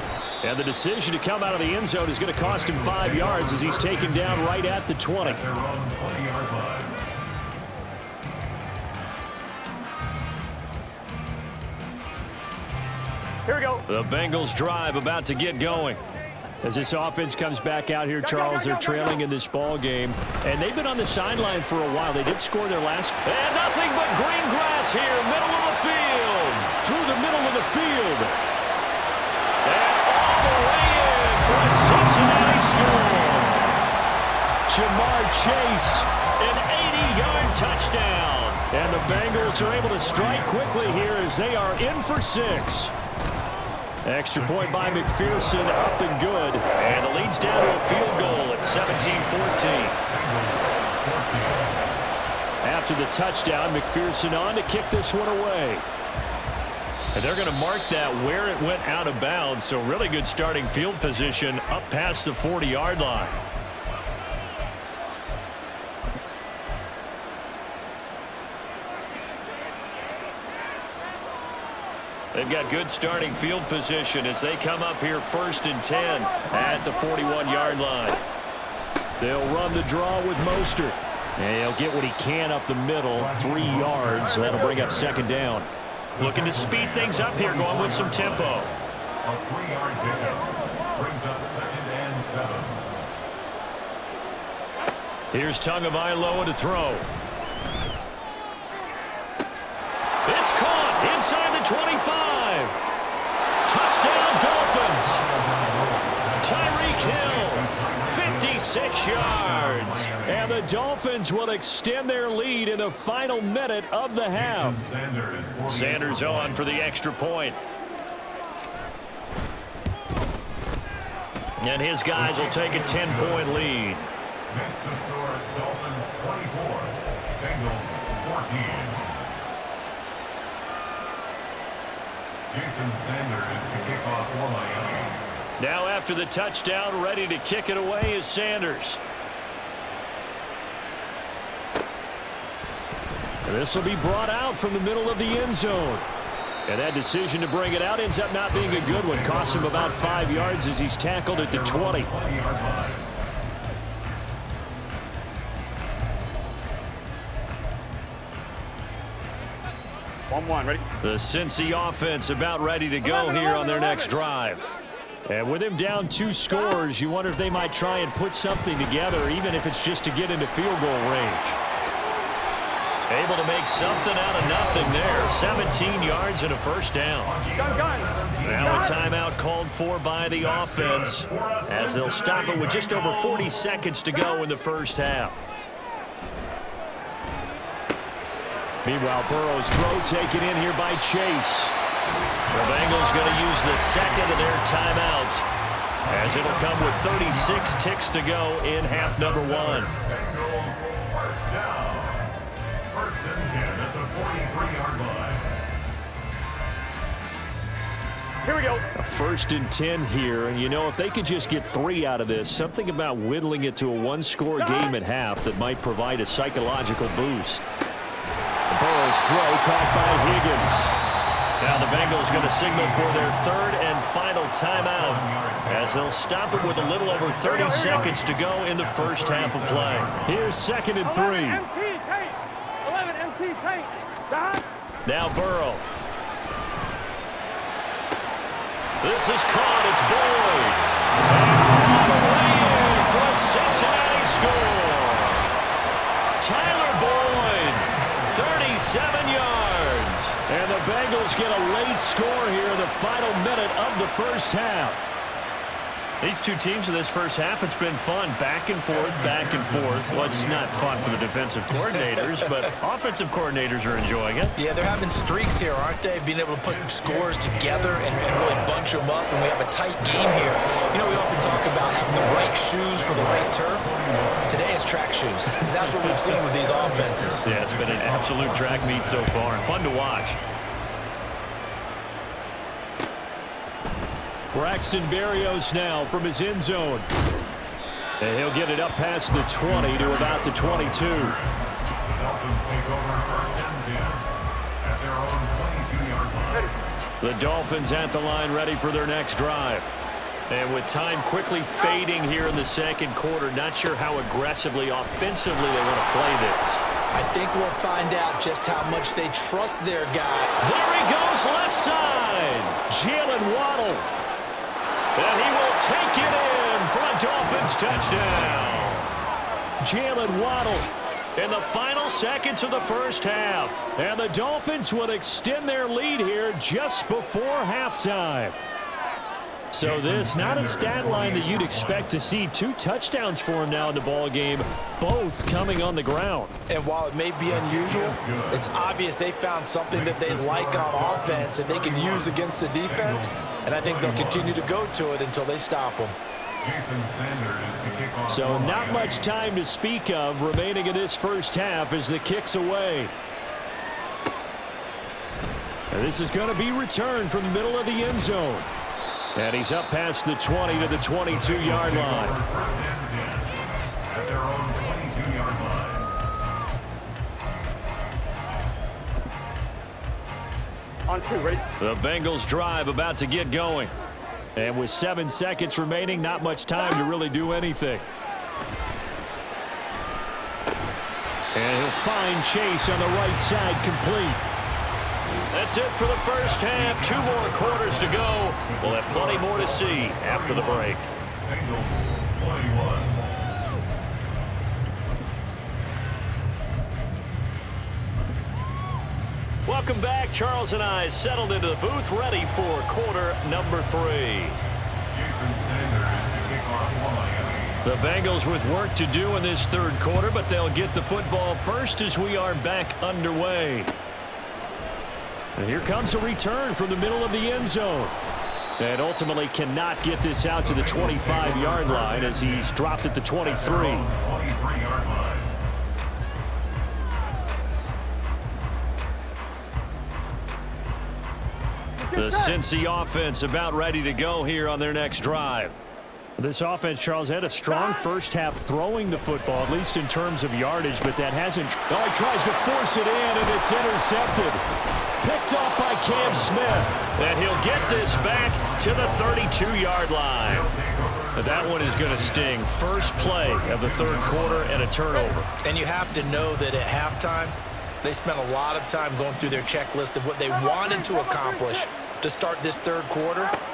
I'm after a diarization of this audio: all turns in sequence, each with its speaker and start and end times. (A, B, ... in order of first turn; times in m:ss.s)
0:00.4-0:05.4 A
0:02.4-0:07.1 B
0:13.5-0:13.8 C
0:13.9-0:16.0 A
0:16.6-0:28.4 A
0:18.2-0:19.2 C
0:29.6-0:33.8 A
0:34.7-0:42.9 A
0:39.0-0:41.3 B
0:44.1-0:50.0 A
0:44.4-0:45.7 B
0:46.8-0:52.0 B
0:52.6-0:55.8 A
0:57.1-1:03.4 A
1:12.3-1:18.2 A
1:19.2-1:28.7 A
1:23.1-1:25.3 B
1:26.2-1:28.7 B
1:29.2-1:32.9 B
1:35.3-1:37.1 A
1:40.3-1:42.8 A
1:43.7-1:45.2 A
1:45.0-1:50.6 B
1:46.4-1:54.8 A
1:54.3-1:56.8 B
1:55.7-1:57.6 A
2:01.6-2:04.1 A
2:02.1-2:03.6 B
2:04.5-2:09.1 B
2:12.5-2:15.2 B
2:15.6-2:19.0 A
2:23.5-2:26.1 A
2:26.7-2:32.1 A
2:28.5-2:30.7 B
2:31.3-2:33.1 B
2:40.3-2:40.8 C
2:41.0-2:44.6 A
2:45.3-2:51.6 A
2:53.1-2:57.4 A
2:54.8-2:55.9 B
2:57.2-2:59.2 B
2:57.6-2:58.1 C
2:58.4-3:05.4 A
3:00.4-3:03.7 B
3:08.8-3:11.7 A
3:12.4-3:13.5 B
3:12.5-3:15.4 A
3:16.0-3:17.8 B
3:16.1-3:19.9 A
3:18.9-3:22.3 B
3:22.9-3:25.6 B
3:28.4-3:28.8 C
3:29.0-3:37.6 A
3:38.7-3:40.9 A
3:41.6-3:51.6 A
3:41.8-3:43.7 B
3:44.7-3:50.5 B
3:47.7-3:48.1 C
3:51.0-3:54.6 C
3:55.0-3:55.8 A
3:59.0-4:05.4 A
4:06.4-4:15.0 A
4:07.9-4:08.7 B
4:16.2-4:24.6 A
4:18.9-4:21.4 B
4:21.9-4:22.7 D
4:24.6-4:33.9 D
4:26.6-4:28.7 B
4:30.0-4:34.7 B
4:34.5-4:37.4 D
4:35.7-4:36.4 A
4:36.6-4:39.8 B
4:37.4-4:40.4 A
4:44.5-4:47.1 A
4:48.2-4:51.4 A
4:49.5-4:54.3 B
4:54.8-4:56.8 B
4:57.2-4:59.9 A
5:00.5-5:06.8 A
5:07.1-5:10.5 D
5:10.6-5:14.1 A
5:15.2-5:19.1 A
5:19.8-5:28.6 A
5:29.7-5:36.6 A
5:29.8-5:32.2 B
5:36.7-5:46.2 D
5:37.4-5:38.7 B
5:39.9-5:44.9 B
5:46.6-5:49.3 B
5:48.3-5:53.1 A
5:55.9-5:58.7 A
5:59.4-6:02.4 A
6:01.1-6:06.1 B
6:11.1-6:11.6 C
6:11.8-6:13.9 A
6:14.6-6:18.1 A
6:21.5-6:24.4 A
6:25.5-6:31.1 A
6:26.4-6:33.5 B
6:39.7-6:44.6 A
6:45.1-6:47.8 B
6:47.8-6:53.9 A
6:55.6-6:58.2 A
6:58.8-7:04.1 A
7:00.6-7:02.8 B
7:03.4-7:05.6 B
7:12.0-7:12.6 C
7:12.1-7:15.8 A
7:16.4-7:24.6 A
7:25.2-7:30.7 A
7:26.2-7:29.7 B
7:30.4-7:34.9 B
7:31.4-7:35.5 A
7:35.6-7:43.5 D